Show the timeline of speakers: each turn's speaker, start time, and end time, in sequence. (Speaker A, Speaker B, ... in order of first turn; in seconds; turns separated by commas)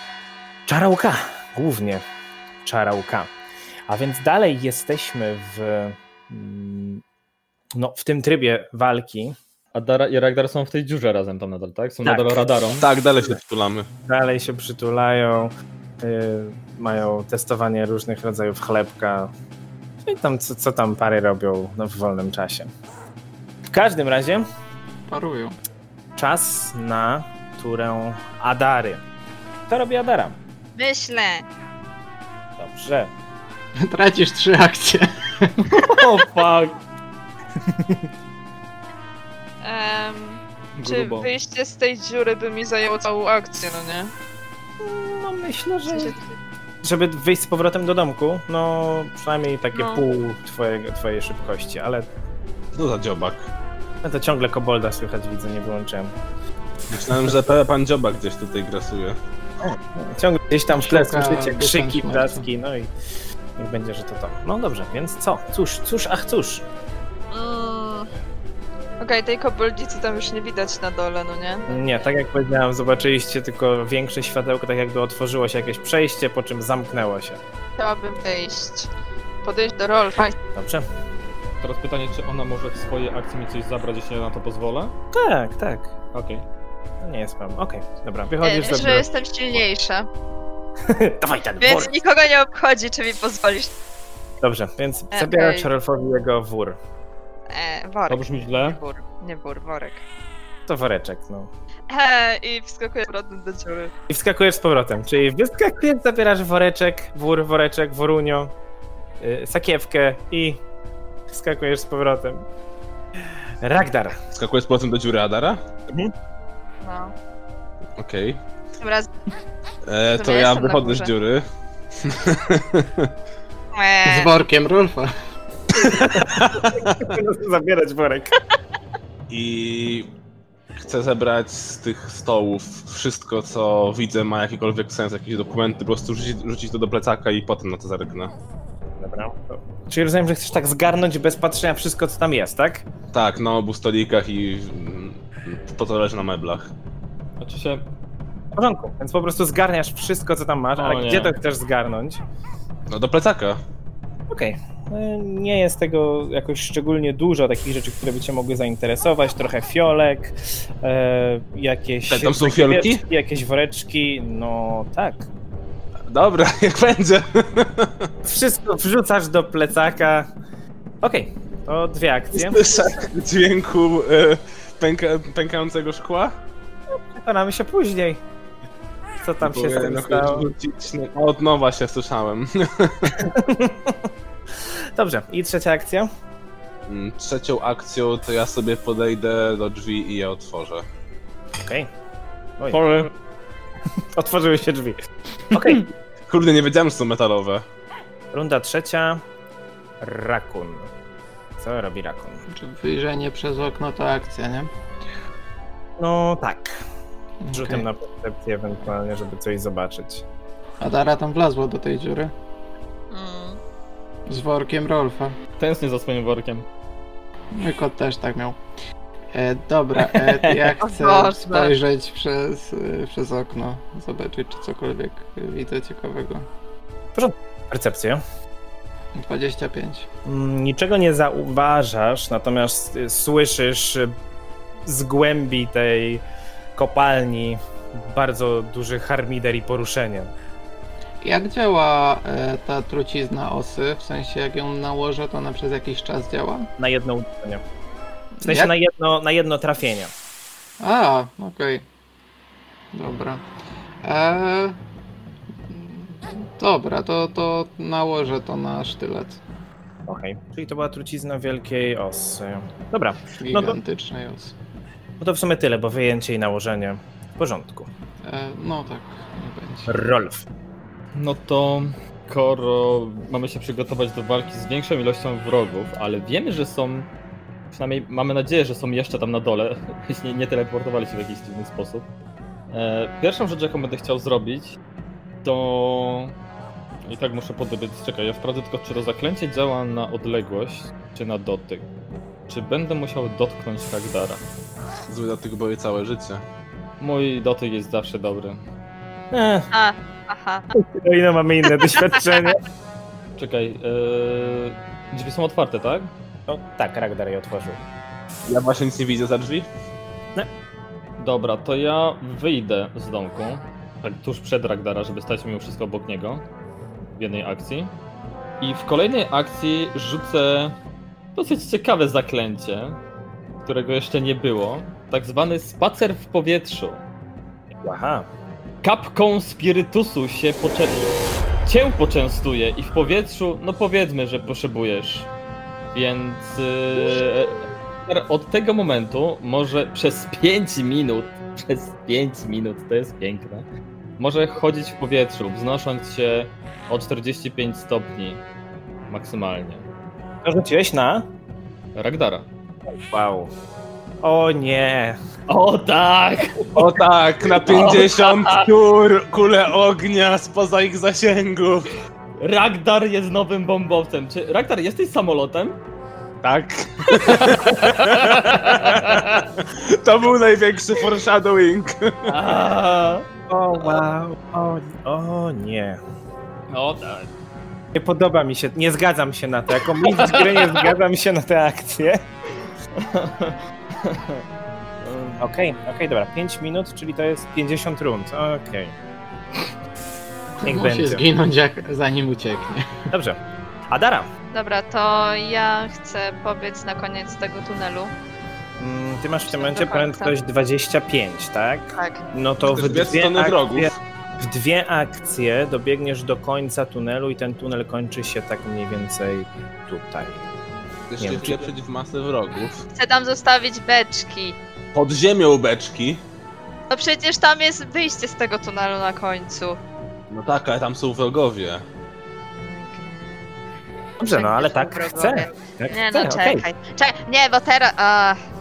Speaker A: 0.7-2.0, Speaker A: 2.6-3.3, Speaker A: 3.9-7.0, Speaker A: 7.8-9.3, Speaker B: 9.7-12.8, Speaker A: 12.0-12.4, Speaker C: 12.8-13.9, Speaker A: 14.0-19.3, Speaker A: 20.0-22.7, Speaker A: 23.7-24.4, Speaker D: 25.1-25.6, Speaker A: 26.2-29.0, Speaker A: 29.7-30.4, Speaker E: 30.8-31.4, Speaker A: 32.6-33.1, Speaker D: 33.8-35.5, Speaker B: 35.6-36.8, Speaker A: 37.6-38.1, Speaker E: 39.6-44.1, Speaker B: 40.8-41.3, Speaker A: 44.8-46.1, Speaker E: 45.9-46.4, Speaker A: 46.8-52.1, Speaker E: 49.7-50.0, Speaker C: 52.7-53.5, Speaker A: 54.0-56.1, Speaker C: 56.9-59.2, Speaker A: 59.6-62.9, Speaker D: 60.7-62.4, Speaker A: 63.6-66.6, Speaker E: 67.3-68.1, Speaker E: 69.0-71.8, Speaker A: 71.7-77.4, Speaker E: 77.8-78.9, Speaker E: 79.4-80.3, Speaker A: 80.5-80.8, Speaker B: 81.6-84.9, Speaker A: 85.1-85.9, Speaker B: 86.1-86.4, Speaker A: 87.0-89.1, Speaker E: 88.4-90.1, Speaker A: 90.8-92.0, Speaker E: 91.6-93.7, Speaker A: 94.4-96.8, Speaker E: 95.1-95.7, Speaker E: 97.5-100.0, Speaker B: 98.1-98.8, Speaker A: 100.7-101.5, Speaker E: 101.9-103.9, Speaker A: 104.1-108.5, Speaker A: 109.2-110.6, Speaker A: 111.3-112.4, Speaker A: 113.6-114.2, Speaker C: 114.3-115.6, Speaker E: 116.8-117.1, Speaker C: 118.0-118.4, Speaker E: 118.8-119.1, Speaker C: 119.9-121.4, Speaker E: 120.1-121.1, Speaker C: 122.0-123.1, Speaker E: 123.7-124.3, Speaker D: 124.0-125.1, Speaker C: 125.7-127.2, Speaker A: 125.8-128.3, Speaker C: 129.3-130.1, Speaker C: 130.8-138.3, Speaker A: 139.0-142.8, Speaker C: 143.1-146.7, Speaker B: 147.4-147.8, Speaker A: 148.5-152.2, Speaker B: 150.8-151.3, Speaker C: 152.9-153.6, Speaker A: 154.3-165.3, Speaker C: 162.1-163.0, Speaker C: 166.1-168.1, Speaker A: 168.2-170.3, Speaker A: 171.0-172.6, Speaker C: 172.3-176.3, Speaker A: 177.1-178.2, Speaker A: 179.2-180.4, Speaker C: 179.4-183.2, Speaker A: 183.2-184.1, Speaker A: 184.9-186.1, Speaker C: 186.9-190.8, Speaker A: 191.6-191.9, Speaker A: 192.6-193.1, Speaker B: 192.7-193.1, Speaker A: 194.1-195.9, Speaker C: 196.3-197.6, Speaker A: 198.3-199.2, Speaker A: 200.0-200.9, Speaker A: 201.6-202.4, Speaker D: 202.5-204.7, Speaker A: 206.0-206.8, Speaker D: 207.4-207.8, Speaker A: 207.5-210.2, Speaker D: 210.8-212.3, Speaker E: 213.1-213.6, Speaker D: 214.3-215.4, Speaker B: 215.6-216.7, Speaker D: 217.5-218.6, Speaker D: 219.3-226.5, Speaker B: 220.0-220.6, Speaker E: 220.8-221.7, Speaker A: 227.1-228.2, Speaker D: 229.1-230.1, Speaker A: 230.2-234.2, Speaker A: 234.8-236.2, Speaker A: 236.7-240.3, Speaker D: 241.2-246.7, Speaker A: 246.8-247.6, Speaker D: 248.4-248.7, Speaker A: 248.4-250.1, Speaker D: 250.8-251.8, Speaker D: 252.9-253.4, Speaker D: 254.0-254.8, Speaker D: 255.7-259.4, Speaker A: 260.1-263.8, Speaker D: 263.4-264.5, Speaker A: 265.2-267.9, Speaker D: 268.2-270.0, Speaker A: 269.9-270.4, Speaker B: 271.1-277.1, Speaker B: 277.7-282.1, Speaker B: 282.7-284.8, Speaker B: 285.4-286.3, Speaker B: 287.0-291.9, Speaker B: 292.5-294.4, Speaker C: 295.1-296.4, Speaker B: 297.0-298.6, Speaker A: 299.3-299.7, Speaker E: 299.7-300.7, Speaker A: 300.7-302.6, Speaker B: 303.4-306.1, Speaker A: 306.5-307.8, Speaker C: 308.5-309.7, Speaker B: 311.2-316.4, Speaker B: 317.1-317.9, Speaker B: 318.6-320.7, Speaker B: 321.3-323.0, Speaker B: 323.6-327.0, Speaker A: 327.8-328.3, Speaker B: 328.8-331.1, Speaker B: 331.6-335.3, Speaker B: 335.9-343.6, Speaker B: 344.2-348.4, Speaker B: 349.1-349.9, Speaker A: 350.4-351.3, Speaker B: 351.9-352.5, Speaker A: 352.9-353.5, Speaker A: 354.2-355.2, Speaker B: 355.5-357.0, Speaker C: 356.7-361.9, Speaker B: 357.6-358.6, Speaker B: 362.4-365.8, Speaker C: 366.4-372.3, Speaker B: 367.1-369.4, Speaker B: 372.2-373.2, Speaker A: 373.5-376.0, Speaker B: 376.7-377.3, Speaker A: 377.9-382.2, Speaker B: 380.0-380.9, Speaker B: 382.9-384.4, Speaker B: 385.0-385.4, Speaker A: 385.4-388.9, Speaker D: 390.6-393.0, Speaker A: 390.6-391.2, Speaker A: 393.1-393.4, Speaker A: 393.9-394.3, Speaker E: 394.5-398.1, Speaker A: 398.8-410.4, Speaker E: 399.5-400.3, Speaker E: 401.9-402.2, Speaker C: 402.6-404.0, Speaker C: 411.1-412.8, Speaker A: 411.2-411.6, Speaker E: 412.9-414.6, Speaker C: 414.9-416.2, Speaker E: 416.9-419.8, Speaker C: 420.3-421.8, Speaker E: 422.5-423.5, Speaker E: 424.2-428.4, Speaker A: 424.2-426.6